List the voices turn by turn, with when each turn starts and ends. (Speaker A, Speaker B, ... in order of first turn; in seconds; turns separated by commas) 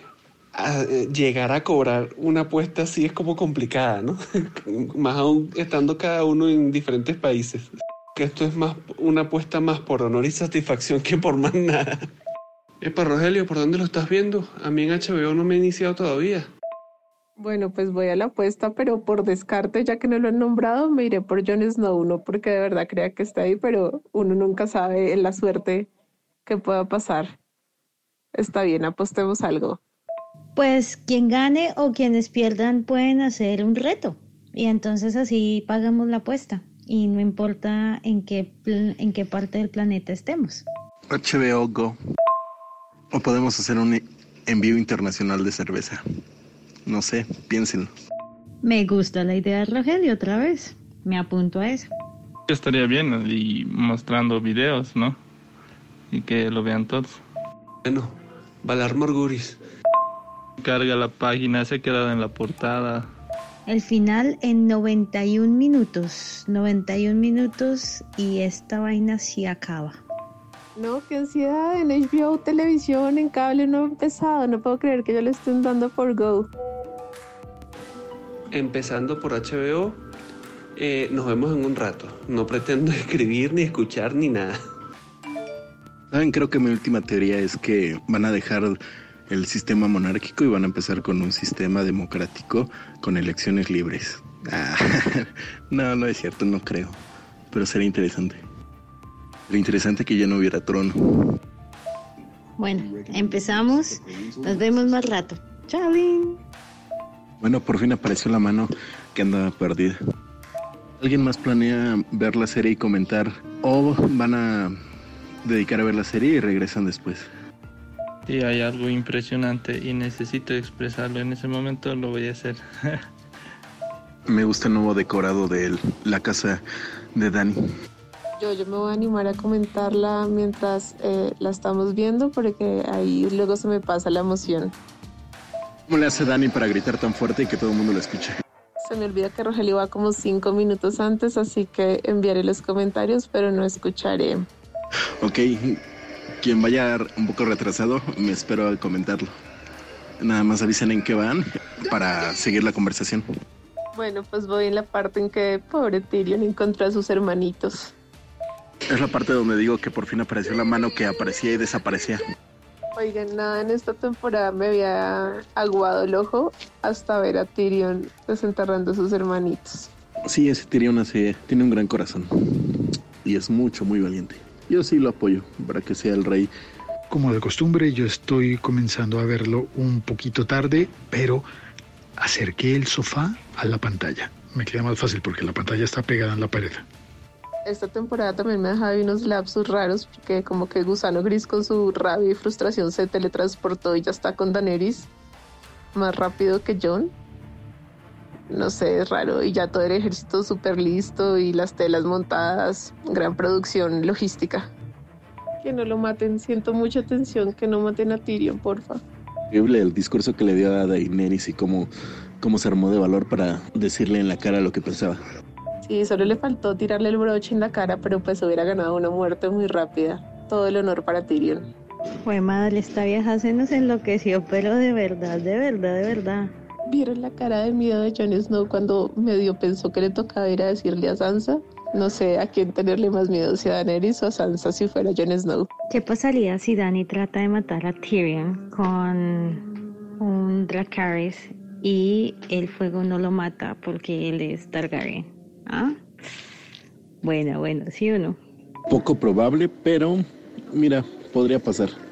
Speaker A: 0.5-12.1, Speaker A: 12.8-16.5, Speaker B: 17.4-25.9, Speaker B: 26.4-27.4, Speaker B: 28.3-29.8, Speaker C: 30.5-40.6, Speaker D: 41.1-42.0, Speaker D: 43.1-46.0, Speaker D: 46.9-47.9, Speaker C: 48.6-51.9, Speaker E: 52.5-55.2, Speaker E: 56.1-57.2, Speaker A: 57.8-59.6, Speaker E: 60.6-63.1, Speaker C: 63.6-70.0, Speaker B: 70.8-76.5, Speaker A: 78.5-80.0, Speaker A: 80.8-84.6, Speaker D: 86.1-88.8, Speaker D: 89.3-97.0, Speaker D: 97.5-98.4, Speaker D: 99.5-101.3, Speaker C: 102.6-106.4, Speaker D: 107.4-110.0, Speaker D: 111.0-114.8, Speaker D: 115.4-117.3, Speaker E: 118.3-123.0, Speaker D: 124.3-126.6, Speaker D: 127.1-127.7, Speaker B: 128.4-134.7, Speaker D: 135.9-138.4, Speaker B: 138.8-144.5, Speaker D: 145.2-145.8, Speaker D: 146.4-149.3, Speaker D: 150.2-153.2, Speaker B: 153.9-157.9, Speaker D: 158.9-162.2, Speaker B: 162.9-169.9, Speaker D: 170.2-176.5, Speaker F: 177.1-181.4, Speaker F: 182.2-186.8, Speaker B: 187.7-195.1, Speaker B: 195.9-197.1, Speaker B: 198.5-204.7, Speaker B: 205.6-209.0, Speaker D: 209.5-215.2, Speaker B: 215.8-221.7, Speaker C: 222.2-226.5, Speaker B: 226.9-235.7, Speaker C: 235.9-239.6, Speaker C: 240.2-246.0, Speaker C: 247.2-248.4, Speaker D: 248.9-252.0